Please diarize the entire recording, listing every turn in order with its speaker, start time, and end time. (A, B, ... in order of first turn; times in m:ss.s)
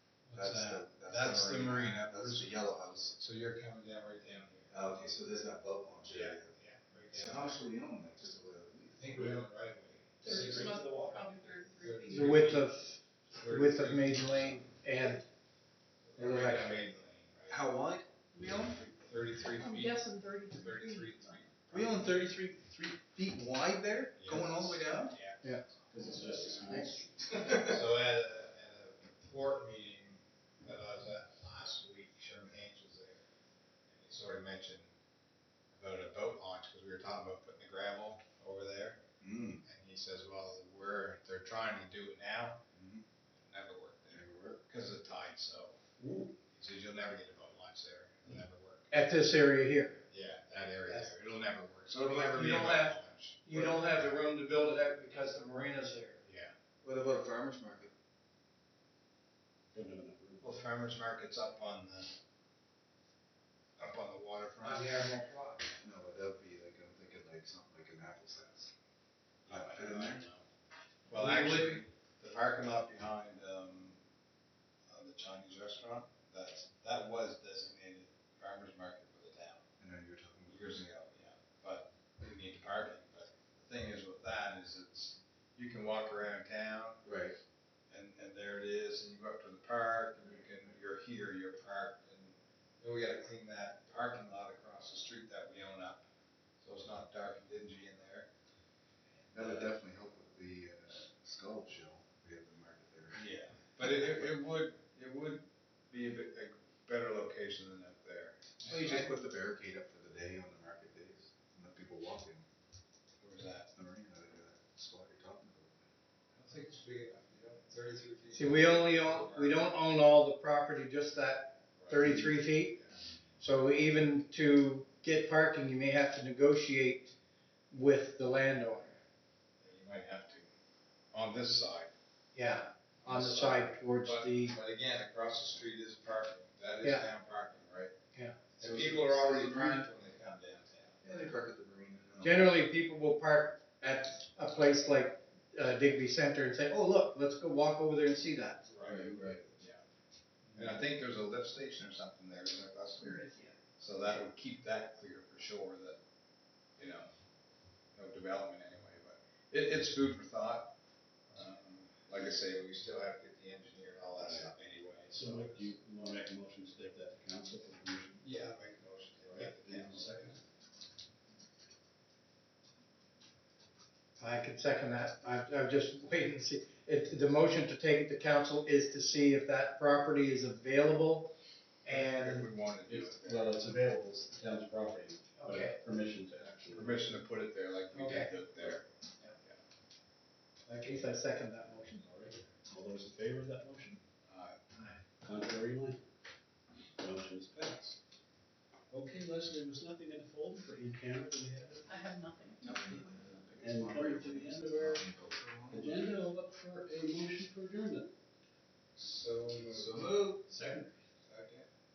0:00.3-0:04.8 A
0:00.3-0:03.2 B
0:04.7-0:06.5 B
0:06.1-0:07.6 A
0:07.1-0:09.4 B
0:09.0-0:12.7 A
0:10.3-0:12.6 C
0:12.1-0:15.2 D
0:13.3-0:14.6 A
0:16.0-0:17.7 A
0:16.2-0:16.8 D
0:17.5-0:18.6 B
0:18.5-0:22.2 A
0:19.5-0:21.4 C
0:21.7-0:25.1 B
0:22.0-0:22.3 E
0:24.1-0:26.6 A
0:25.9-0:27.4 E
0:27.3-0:27.8 B
0:27.5-0:33.2 A
0:33.9-0:34.9 A
0:35.7-0:39.0 A
0:39.2-0:39.6 B
0:39.6-0:42.6 A
0:42.7-0:43.0 B
0:43.4-0:45.8 A
0:44.1-0:44.6 B
0:46.0-0:46.3 E
0:46.5-0:49.1 A
0:48.9-0:50.0 D
0:50.1-0:54.1 A
0:50.9-0:51.1 D
0:51.9-0:56.2 D
0:56.2-0:56.5 A
0:56.8-0:57.9 B
0:59.7-1:00.5 E
1:00.4-1:02.1 A
1:03.8-1:05.0 A
1:04.6-1:05.7 D
1:05.8-1:08.7 B
1:09.4-1:10.4 A
1:09.5-1:10.3 B
1:11.1-1:14.0 A
1:11.1-1:11.8 D
1:14.9-1:19.6 A
1:19.8-1:20.8 B
1:20.5-1:27.0 A
1:27.0-1:27.4 B
1:27.9-1:36.0 A
1:36.6-1:38.3 A
1:39.3-1:43.3 B
1:39.4-1:39.6 A
1:43.1-1:49.1 A
1:43.8-1:44.3 B
1:48.6-1:52.4 B
1:53.2-1:53.7 A
1:53.7-1:55.9 B
1:56.4-1:59.6 A
1:58.3-2:02.8 D
2:01.8-2:02.9 A
2:03.4-2:07.1 D
2:07.7-2:09.0 D
2:09.6-2:10.5 A
2:11.1-2:11.9 A
2:12.3-2:14.6 D
2:13.0-2:17.9 A
2:16.8-2:17.1 D
2:18.1-2:18.4 D
2:18.6-2:21.0 A
2:18.6-2:19.9 B
2:21.0-2:22.6 B
2:22.2-2:29.4 D
2:28.7-2:29.8 A
2:28.8-2:29.4 B
2:30.5-2:36.0 A
2:36.8-2:37.1 A
2:37.9-2:40.7 A
2:41.3-2:45.7 A
2:44.2-2:44.5 E
2:45.1-2:48.2 E
2:48.2-2:50.4 A
2:49.3-2:50.4 E
2:54.2-3:01.3 D
3:01.8-3:02.5 D
3:01.9-3:03.6 A
3:02.9-3:07.1 E
3:05.4-3:05.8 D
3:06.7-3:08.8 A
3:07.9-3:08.3 D
3:10.7-3:12.3 D
3:12.2-3:14.0 E
3:14.3-3:14.6 A
3:15.2-3:16.0 E
3:17.0-3:18.0 E
3:18.9-3:21.9 E
3:21.9-3:22.8 C
3:22.6-3:26.1 B
3:23.6-3:25.0 E
3:25.7-3:28.1 E
3:29.0-3:30.4 A
3:29.8-3:30.9 E
3:31.2-3:31.7 A